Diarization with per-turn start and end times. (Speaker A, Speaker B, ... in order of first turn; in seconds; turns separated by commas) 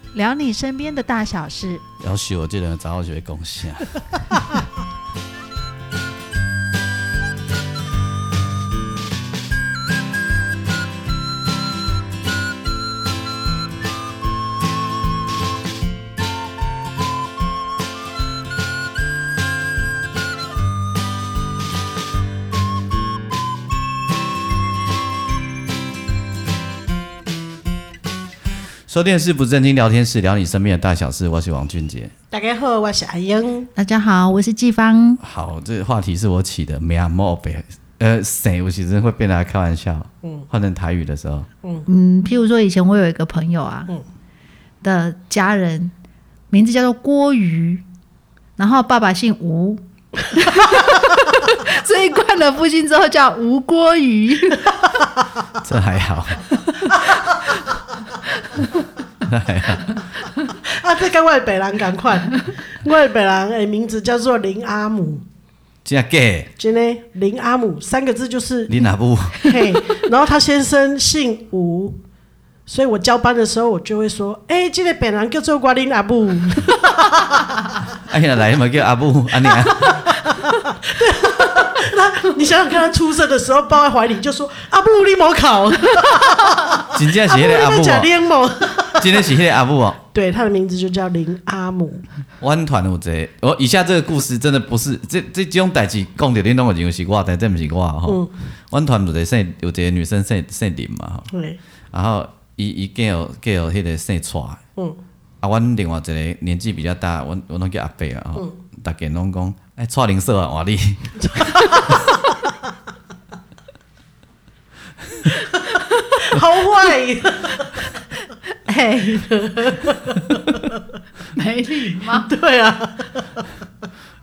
Speaker A: 0.1-1.8, Speaker B: 2.0-4.2, Speaker B: 28.9-32.1, Speaker C: 32.3-33.7, Speaker A: 33.8-35.2, Speaker B: 35.2-41.5, Speaker A: 41.9-43.9, Speaker A: 44.8-45.9, Speaker A: 46.5-47.8, Speaker A: 48.6-54.7, Speaker B: 55.6-56.5, Speaker B: 59.2-59.9, Speaker C: 60.6-65.2, Speaker B: 65.8-66.5, Speaker C: 66.6-68.8, Speaker B: 68.7-69.5, Speaker C: 69.3-72.0, Speaker C: 72.7-77.8, Speaker B: 78.1-80.0, Speaker C: 79.7-89.3, Speaker B: 86.9-88.1, Speaker B: 89.0-90.0, Speaker C: 90.1-92.0, Speaker B: 92.4-101.3, Speaker C: 101.3-101.6, Speaker B: 101.9-104.6, Speaker B: 105.4-112.0, Speaker C: 111.2-112.4, Speaker C: 115.5-117.9, Speaker A: 118.7-119.8, Speaker C: 119.3-120.8, Speaker A: 121.3-122.3, Speaker C: 122.0-123.4